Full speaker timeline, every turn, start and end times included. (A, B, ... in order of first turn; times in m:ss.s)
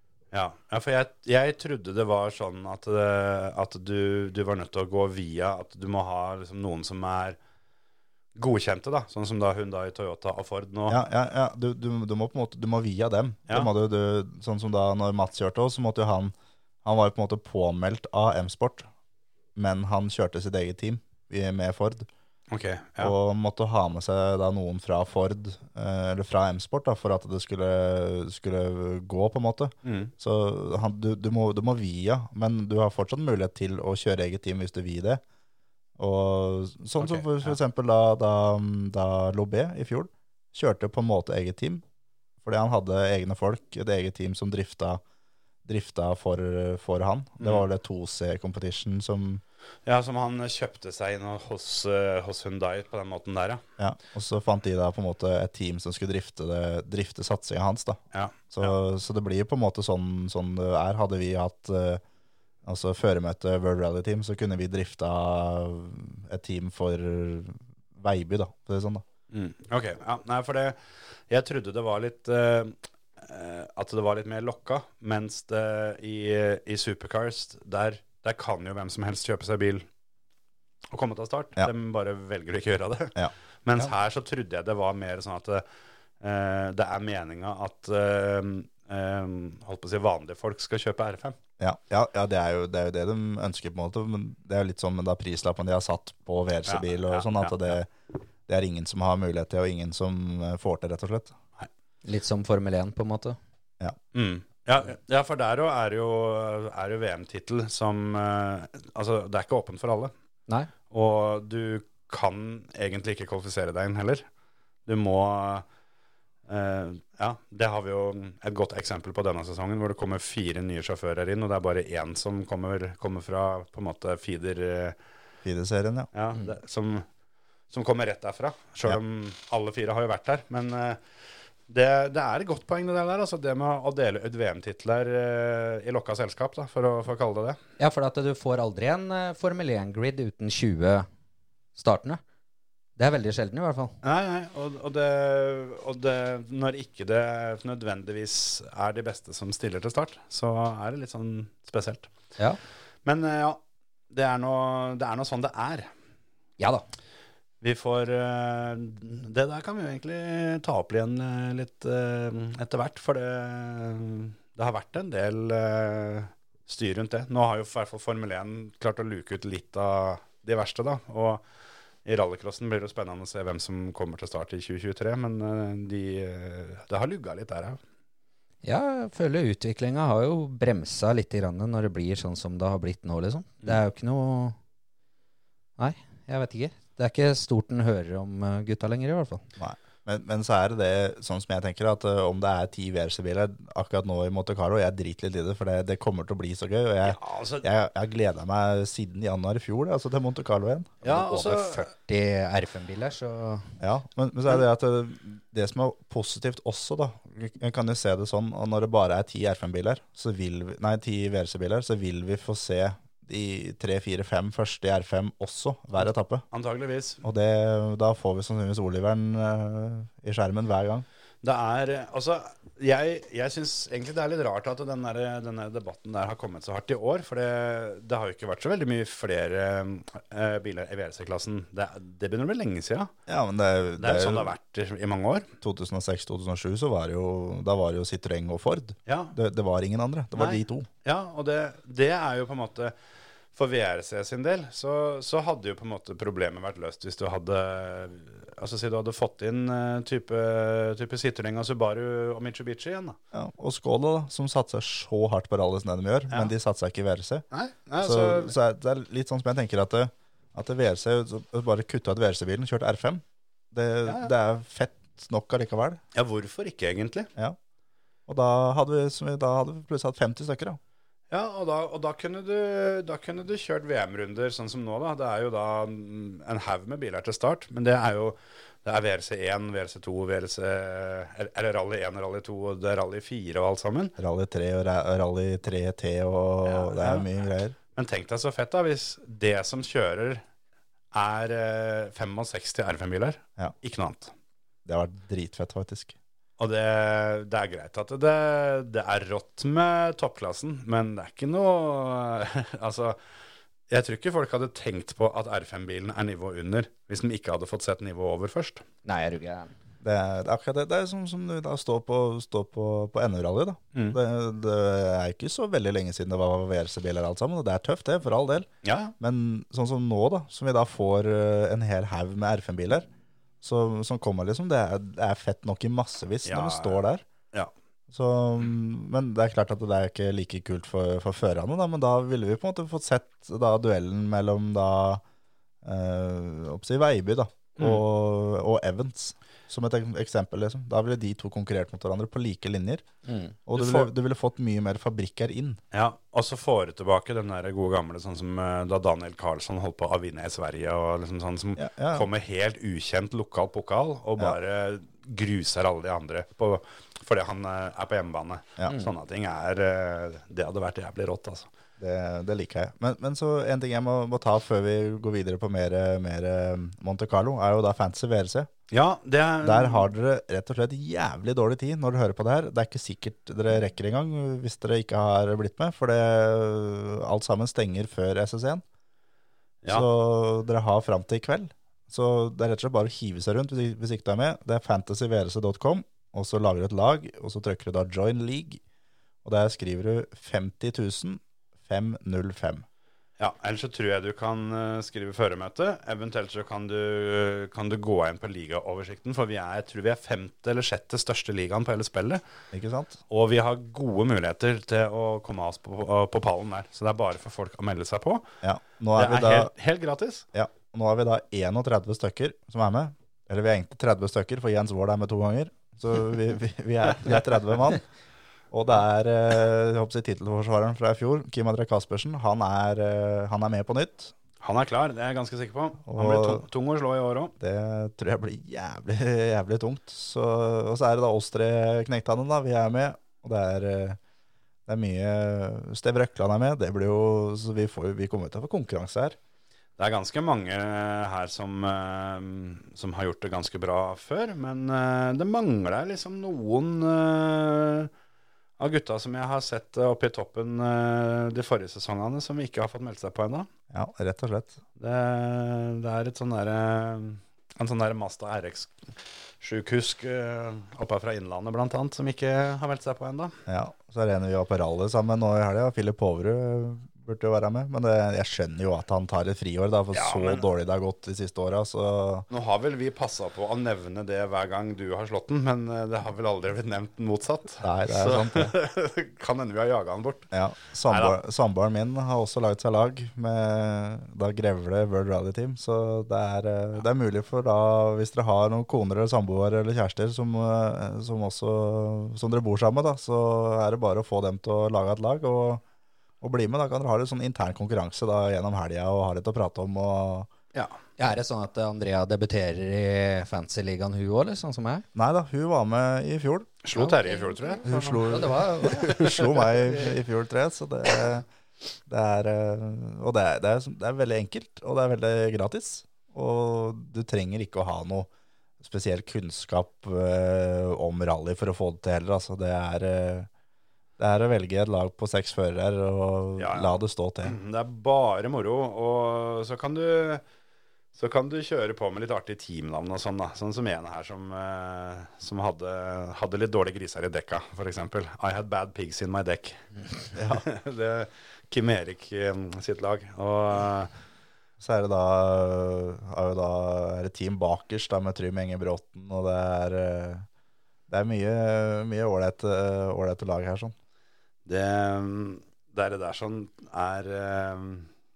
0:00.3-0:07.4 A
0:08.4-0:11.0 A
0:10.9-0:18.9 B
0:19.6-0:22.1 B
0:22.5-0:23.1 A
0:23.0-0:35.2 B
0:29.8-0:30.1 A
0:36.0-0:41.8 B
0:37.0-0:37.6 A
0:42.4-0:45.0 B
0:45.6-0:49.4 B
0:47.4-0:47.6 A
0:49.8-0:53.6 A
0:53.8-0:58.0 B
0:58.1-0:58.7 A
0:58.5-1:02.0 B
1:02.6-1:09.0 B
1:09.3-1:10.8 A
1:11.3-1:19.8 A
1:20.9-1:25.6 A
1:23.2-1:23.9 B
1:26.2-1:31.4 A
1:31.6-1:37.9 B
1:36.7-1:37.8 A
1:38.5-1:41.4 B
1:42.0-1:43.4 C
1:44.1-1:50.1 A
1:50.9-1:54.2 A
1:54.8-1:55.6 A
1:56.5-2:05.0 A
2:05.4-2:06.1 B
2:06.1-2:07.0 A
2:07.7-2:11.0 A
2:11.7-2:17.6 A
2:17.8-2:21.1 C
2:21.8-2:22.2 C
2:23.0-2:24.0 C
2:24.0-2:32.1 A
2:33.0-2:35.9 A
2:36.6-2:36.8 C
2:37.6-2:51.4 A
2:52.0-2:57.8 A
2:58.6-3:04.6 C
3:05.8-3:09.4 C
3:09.6-3:21.0 B
3:17.0-3:17.6 A
3:21.0-3:21.8 A
3:21.0-3:23.7 C
3:23.8-3:36.4 B
3:36.5-3:37.2 A
3:37.2-3:41.0 B
3:41.4-3:53.1 A
3:53.3-3:54.5 B
3:54.0-3:55.5 A
3:55.6-4:00.9 B
3:59.1-3:59.4 A
4:00.3-4:02.9 A
4:03.5-4:13.2 A
4:13.3-4:17.4 B
4:17.5-4:18.5 A
4:18.0-4:26.0 B
4:24.0-4:24.3 A
4:26.1-4:27.3 A
4:28.3-4:30.8 B
4:31.3-4:44.1 A
4:44.2-4:47.8 B
4:46.6-4:47.3 A
4:47.9-4:50.4 A
4:51.1-4:54.3 A
4:54.8-4:56.2 B
4:56.6-5:03.2 A
5:03.9-5:08.8 A
5:09.0-5:09.7 C
5:10.0-5:18.7 B
5:13.9-5:14.2 A
5:18.8-5:19.1 A
5:19.2-5:23.1 B
5:23.6-5:27.2 B
5:26.4-5:27.0 A
5:28.1-5:35.2 B
5:35.8-5:43.0 B
5:37.8-5:38.0 A
5:43.2-5:43.5 C
5:43.7-5:45.8 B
5:43.7-5:44.1 A
5:45.9-6:01.7 A
5:51.8-5:52.3 B
6:02.0-6:08.7 B
6:08.9-6:10.1 A
6:09.6-6:18.8 B
6:19.9-6:28.8 B
6:29.4-6:32.8 B
6:33.4-6:42.4 A
6:42.7-6:43.2 B
6:43.3-6:48.5 A
6:48.6-6:49.7 B
6:49.1-6:50.4 A
6:50.5-6:58.0 B
6:58.7-7:04.3 B
7:04.6-7:07.5 A
7:06.1-7:06.6 B
7:07.6-7:14.2 B
7:14.9-7:19.4 B
7:20.0-7:28.1 A
7:28.8-7:33.7 A
7:33.9-7:34.8 B
7:35.0-7:39.0 A
7:39.6-7:43.6 A
7:43.7-7:52.5 B
7:50.1-7:50.6 A
7:52.5-8:00.5 A
7:57.8-7:58.7 B
8:00.5-8:15.8 B
8:01.1-8:01.4 A
8:16.4-8:20.5 B
8:21.2-8:25.0 C
8:25.1-8:26.8 B
8:26.8-8:28.4 A
8:26.9-8:29.3 C
8:27.8-8:31.4 B
8:29.0-8:29.5 A
8:32.1-8:38.3 B
8:38.8-8:43.5 B
8:44.2-8:47.6 B
8:46.6-8:50.4 A
8:51.1-9:04.1 A
9:00.3-9:00.6 B
9:04.8-9:10.4 B
9:11.1-9:13.9 B
9:14.6-9:18.1 A